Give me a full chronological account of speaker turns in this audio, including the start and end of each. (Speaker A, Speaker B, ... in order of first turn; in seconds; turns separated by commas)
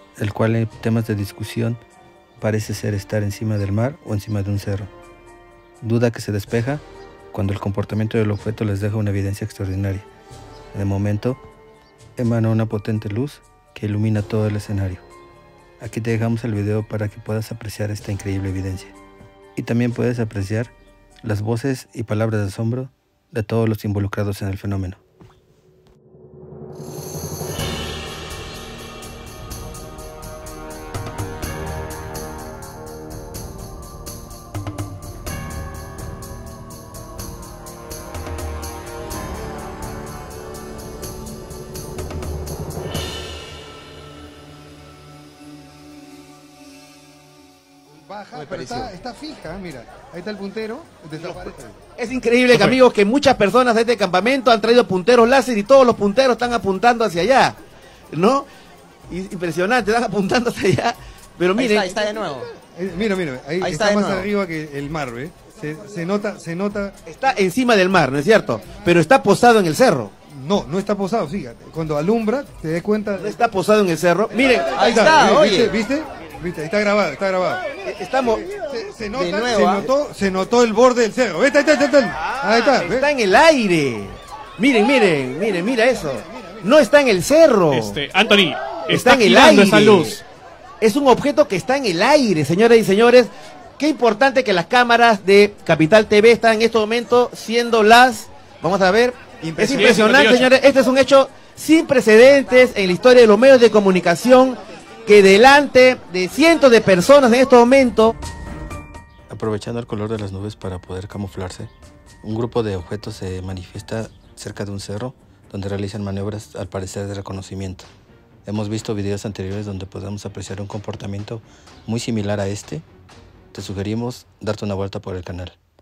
Speaker A: 0.2-1.8, Speaker A: 2.4-4.9, Speaker A: 5.8-10.1, Speaker A: 10.7-11.4, Speaker A: 12.2-15.0, Speaker A: 15.8-18.9, Speaker A: 19.6-25.0, Speaker B: 47.9-51.8, Speaker C: 48.4-48.9, Speaker D: 52.0-57.6, Speaker E: 52.5-52.8, Speaker D: 58.1-58.5, Speaker D: 59.1-62.0, Speaker C: 61.5-62.5, Speaker B: 62.6-67.0, Speaker C: 63.6-64.3, Speaker D: 67.0-70.1, Speaker B: 70.2-73.3, Speaker D: 73.2-74.9, Speaker C: 74.7-75.7, Speaker B: 74.8-77.6, Speaker D: 77.8-78.5, Speaker B: 78.5-83.1, Speaker C: 79.1-79.9, Speaker D: 82.2-88.0, Speaker E: 87.7-90.2, Speaker D: 88.9-90.2, Speaker D: 90.8-108.1, Speaker B: 99.4-100.3, Speaker E: 99.6-100.5, Speaker A: 109.3-117.9, Speaker A: 118.4-122.9, Speaker A: 123.5-125.6